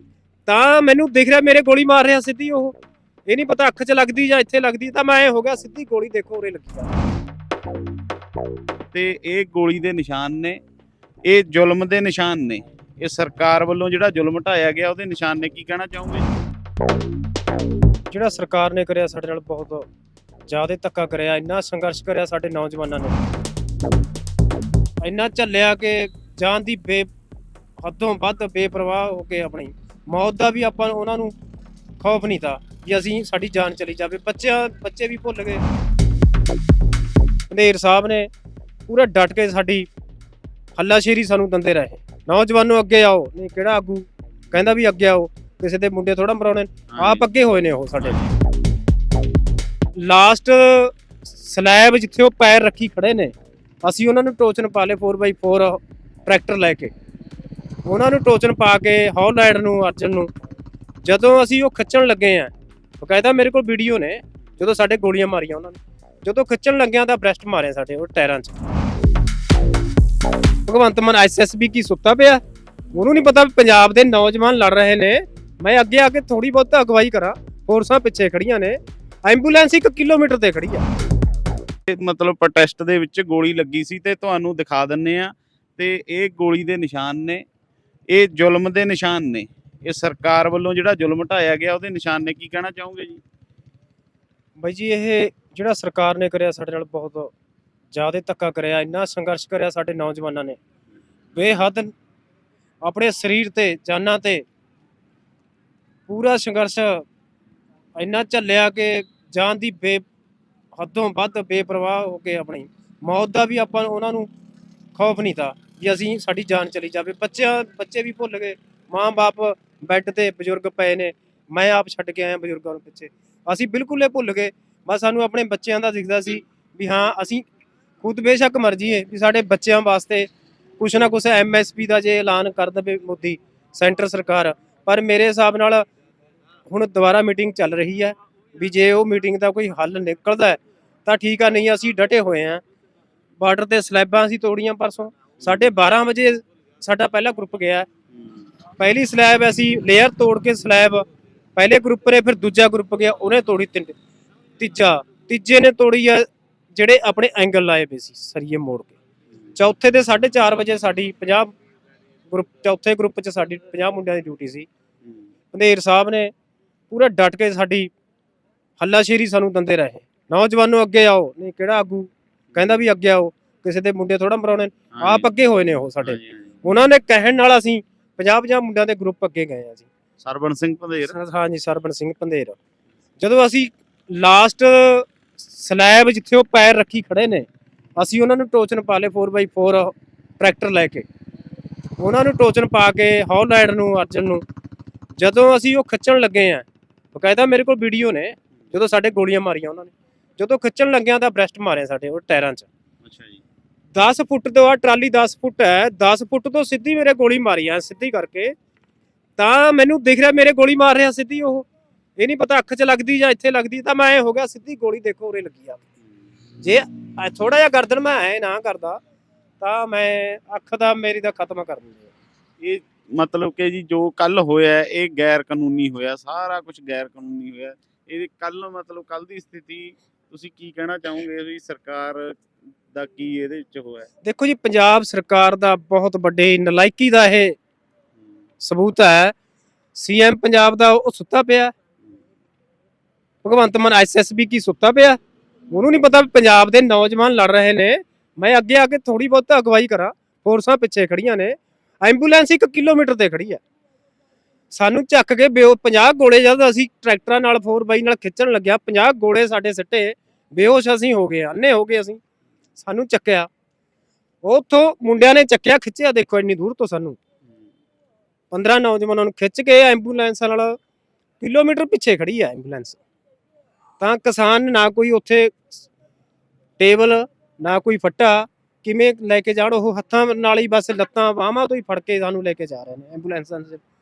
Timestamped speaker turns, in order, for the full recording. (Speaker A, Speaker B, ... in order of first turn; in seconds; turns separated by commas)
Speaker A: 0.5-2.8, Speaker A: 3.3-6.9, Speaker B: 8.9-10.6, Speaker B: 11.3-16.3, Speaker A: 18.1-19.9, Speaker A: 20.5-23.2, Speaker A: 25.0-27.1, Speaker A: 27.8-31.4, Speaker A: 32.0-35.6, Speaker A: 37.5-38.3, Speaker A: 38.9-39.9, Speaker A: 40.8-48.2, Speaker B: 46.9-47.3, Speaker B: 48.0-48.3, Speaker A: 50.0-56.9, Speaker A: 57.9-60.3, Speaker A: 61.0-68.6, Speaker A: 70.7-72.4, Speaker A: 72.9-80.9, Speaker B: 81.9-87.4, Speaker B: 88.1-93.2, Speaker A: 94.6-97.3, Speaker A: 97.9-100.6, Speaker A: 101.3-101.9, Speaker A: 102.8-104.5, Speaker A: 106.1-107.0, Speaker A: 108.0-110.0, Speaker A: 110.8-114.3, Speaker A: 115.0-127.5, Speaker A: 128.0-135.8, Speaker A: 136.7-142.6, Speaker A: 143.4-147.9, Speaker B: 145.4-145.7, Speaker B: 148.1-148.5, Speaker A: 148.8-151.1, Speaker A: 151.6-154.0, Speaker A: 154.6-159.0, Speaker A: 159.6-161.6, Speaker A: 162.3-164.7, Speaker B: 165.0-165.3, Speaker A: 165.5-166.3, Speaker A: 166.9-167.9, Speaker A: 168.8-179.9, Speaker B: 174.9-175.3, Speaker B: 176.0-176.6, Speaker B: 180.2-181.2, Speaker A: 181.1-182.6, Speaker A: 183.2-191.1, Speaker A: 192.0-194.4, Speaker A: 195.2-202.7, Speaker B: 203.0-203.4, Speaker A: 203.9-208.6, Speaker A: 209.4-211.7, Speaker A: 212.2-215.8, Speaker A: 216.6-219.0, Speaker A: 219.6-222.1, Speaker B: 222.6-232.4, Speaker B: 232.9-234.1, Speaker A: 234.2-237.6, Speaker A: 238.6-239.3, Speaker A: 239.9-241.7, Speaker A: 243.4-245.2, Speaker A: 245.7-253.6, Speaker A: 254.7-262.2, Speaker A: 262.8-263.5, Speaker A: 264.4-267.2, Speaker A: 268.5-270.8, Speaker A: 271.4-273.0, Speaker A: 274.0-275.8, Speaker A: 276.8-283.8